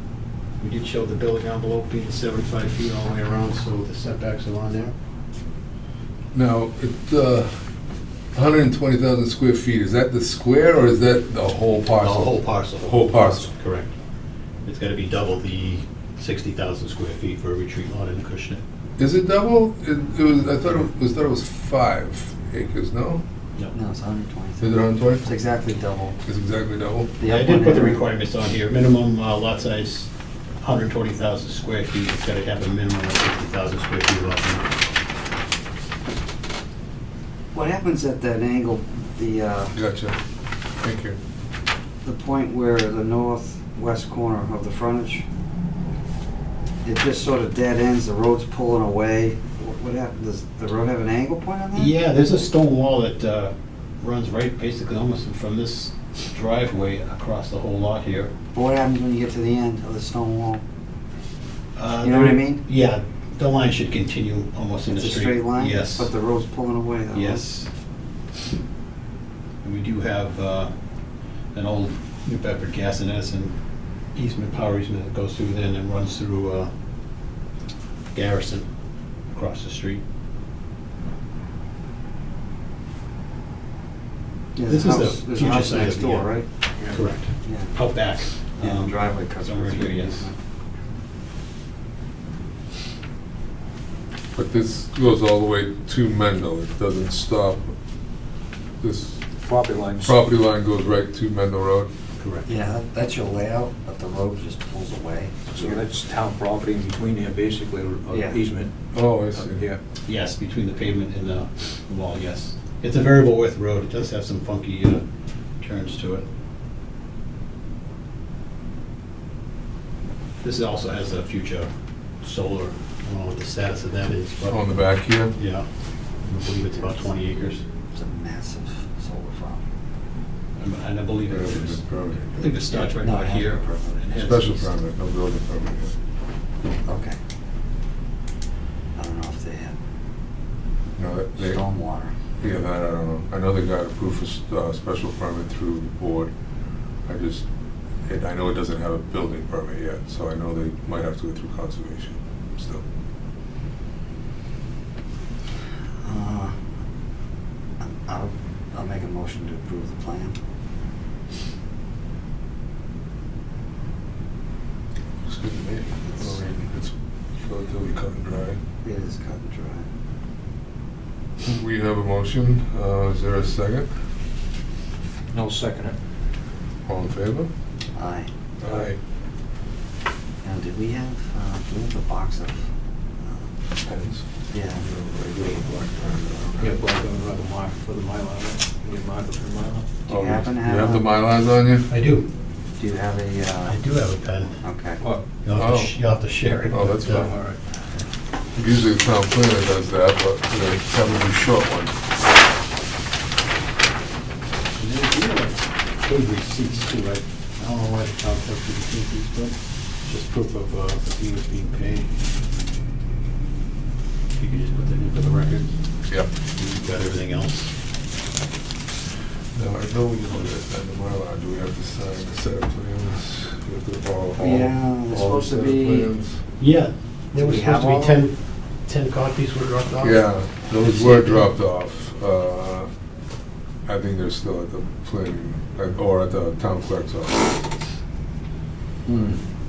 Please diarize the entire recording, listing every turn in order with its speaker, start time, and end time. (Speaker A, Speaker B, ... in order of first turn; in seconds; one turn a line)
Speaker A: 0.6-4.9
Speaker B: 6.3-7.5
Speaker B: 8.3-13.5
Speaker A: 12.0-13.9
Speaker A: 14.6-18.6
Speaker B: 19.0-23.2
Speaker C: 23.7-26.2
Speaker B: 24.6-25.3
Speaker B: 26.2-27.1
Speaker C: 27.2-28.0
Speaker A: 27.2-34.8
Speaker C: 37.5-39.7
Speaker B: 39.7-40.2
Speaker B: 40.8-41.2
Speaker C: 42.0-45.2
Speaker C: 46.8-51.9
Speaker A: 51.7-58.3
Speaker C: 58.5-60.6
Speaker A: 61.8-66.1
Speaker C: 62.0-62.6
Speaker C: 64.9-67.5
Speaker A: 67.1-67.7
Speaker A: 69.6-70.7
Speaker A: 71.5-73.5
Speaker A: 74.1-76.7
Speaker A: 78.1-78.7
Speaker A: 79.3-80.0
Speaker C: 84.5-86.5
Speaker A: 84.7-86.3
Speaker A: 86.9-90.3
Speaker C: 87.4-87.8
Speaker C: 88.6-90.3
Speaker B: 94.3-97.7
Speaker B: 98.8-99.2
Speaker D: 99.4-100.2
Speaker B: 100.0-101.9
Speaker A: 102.2-102.5
Speaker C: 102.5-105.8
Speaker D: 105.5-109.8
Speaker C: 108.1-108.4
Speaker B: 108.9-109.6
Speaker A: 110.0-115.0
Speaker A: 115.6-116.2
Speaker A: 120.4-121.7
Speaker A: 122.2-124.6
Speaker B: 124.5-125.3
Speaker A: 125.3-125.7
Speaker A: 126.2-127.6
Speaker C: 127.9-129.6
Speaker A: 130.6-134.5
Speaker B: 131.3-132.6
Speaker C: 132.8-134.6
Speaker B: 134.2-135.9
Speaker C: 136.8-137.2
Speaker C: 138.9-139.8
Speaker B: 141.0-141.6
Speaker C: 141.4-142.1
Speaker B: 142.4-146.3
Speaker B: 147.1-147.4
Speaker B: 148.0-152.8
Speaker C: 156.0-156.6
Speaker C: 157.8-160.4
Speaker B: 165.2-168.6
Speaker C: 168.8-169.9
Speaker B: 171.4-173.9
Speaker D: 175.3-175.9
Speaker B: 176.8-177.5
Speaker C: 177.9-178.3
Speaker B: 178.6-179.0
Speaker D: 178.6-178.9
Speaker C: 180.4-182.6
Speaker C: 183.2-183.6
Speaker B: 183.8-184.2
Speaker C: 184.5-184.8
Speaker B: 184.8-186.8
Speaker D: 186.6-189.9
Speaker C: 190.1-191.1
Speaker B: 190.1-191.9
Speaker A: 191.9-192.3
Speaker C: 192.8-193.8
Speaker A: 193.7-194.6
Speaker C: 194.6-195.0
Speaker A: 195.4-197.3
Speaker B: 195.5-195.9
Speaker B: 196.7-197.4
Speaker D: 197.1-197.6
Speaker B: 198.5-201.9
Speaker A: 204.8-212.1
Speaker A: 214.3-215.8
Speaker A: 216.5-217.7
Speaker B: 219.5-226.4
Speaker C: 224.4-226.1
Speaker A: 226.6-230.2
Speaker C: 227.3-228.2
Speaker B: 230.0-232.9
Speaker A: 230.8-231.4
Speaker B: 233.8-237.6
Speaker C: 239.1-239.4